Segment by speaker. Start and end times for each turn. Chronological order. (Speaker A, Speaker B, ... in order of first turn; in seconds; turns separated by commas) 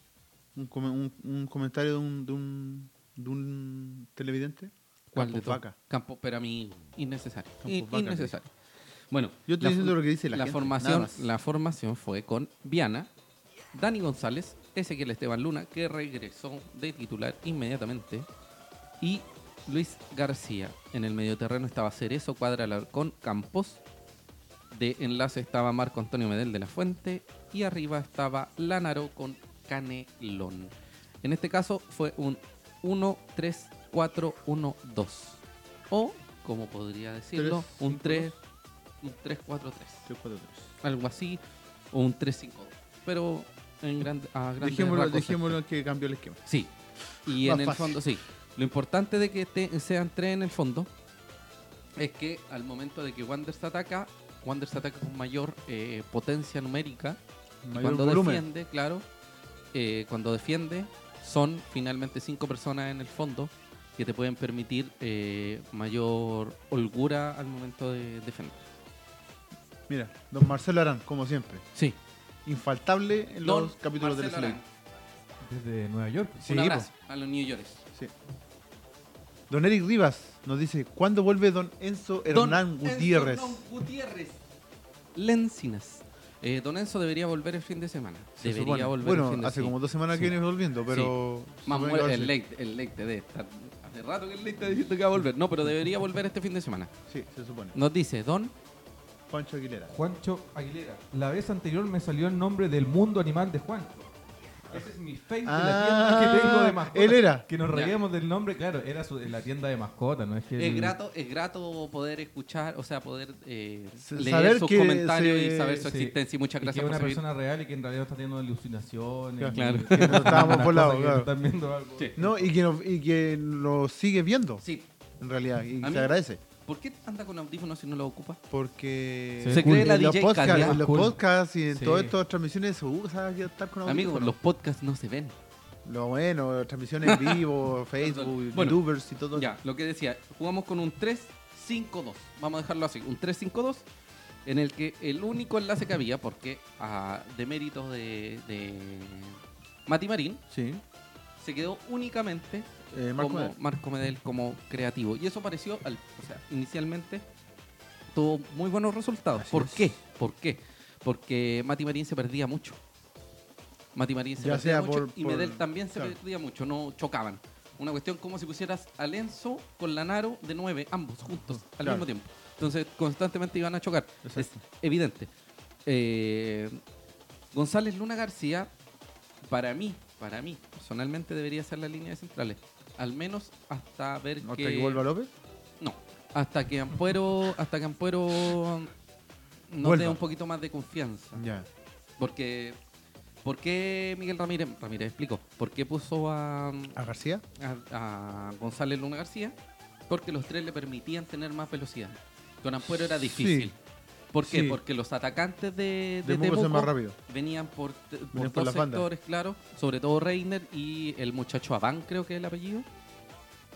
Speaker A: 0.5-5.7, Speaker B: 5.1-8.5, Speaker A: 7.6-8.3, Speaker B: 9.1-13.1, Speaker A: 9.5-11.3, Speaker B: 13.7-18.3, Speaker B: 19.0-23.8, Speaker B: 24.7-30.7, Speaker B: 31.2-35.4, Speaker B: 35.9-38.4, Speaker A: 37.3-38.3, Speaker B: 39.0-40.1, Speaker A: 40.1-40.7, Speaker B: 40.8-41.4, Speaker B: 41.9-45.6, Speaker A: 44.6-46.4, Speaker B: 46.5-46.7, Speaker B: 47.2-50.9, Speaker A: 47.3-48.0, Speaker B: 52.0-57.2, Speaker A: 57.6-58.5, Speaker B: 57.7-59.0, Speaker B: 59.7-68.6, Speaker A: 69.9-71.6, Speaker A: 72.5-74.6, Speaker B: 73.4-74.6, Speaker C: 75.4-76.5, Speaker A: 76.4-76.9, Speaker B: 76.4-77.8, Speaker A: 79.5-83.6, Speaker B: 82.3-84.4, Speaker B: 85.1-90.3, Speaker A: 88.4-92.3, Speaker B: 90.9-96.9, Speaker A: 97.1-97.8, Speaker B: 97.7-98.5, Speaker A: 99.3-99.9, Speaker C: 99.9-104.1, Speaker C: 104.7-110.9, Speaker A: 105.4-107.5, Speaker B: 110.6-117.2, Speaker A: 114.0-115.9, Speaker C: 115.8-122.5, Speaker A: 119.4-121.3, Speaker B: 119.5-120.7, Speaker A: 122.2-124.6, Speaker B: 124.6-124.9, Speaker A: 125.2-126.4, Speaker B: 125.8-128.4, Speaker A: 128.5-134.3, Speaker C: 129.4-131.2, Speaker B: 129.5-130.8, Speaker B: 131.7-132.1, Speaker B: 133.8-135.3, Speaker A: 135.8-139.5, Speaker B: 137.0-137.4, Speaker B: 138.0-143.8, Speaker B: 144.4-150.4, Speaker A: 150.5-150.8, Speaker B: 151.4-157.2, Speaker A: 152.9-153.6, Speaker B: 158.1-162.8, Speaker A: 159.3-159.9, Speaker B: 163.9-175.3, Speaker A: 164.4-166.2, Speaker A: 171.8-172.1, Speaker A: 174.2-174.6, Speaker B: 175.8-176.8, Speaker B: 177.5-178.7, Speaker B: 179.4-185.1, Speaker A: 184.4-185.3, Speaker B: 185.8-188.9, Speaker B: 189.7-191.4, Speaker A: 189.8-190.2, Speaker A: 191.3-191.7, Speaker B: 192.2-192.8, Speaker B: 193.4-197.0, Speaker A: 196.9-197.4, Speaker B: 197.6-199.5, Speaker B: 200.1-203.8, Speaker A: 203.2-203.7, Speaker B: 204.3-212.8, Speaker A: 204.4-204.8, Speaker A: 206.2-207.2, Speaker A: 208.3-209.1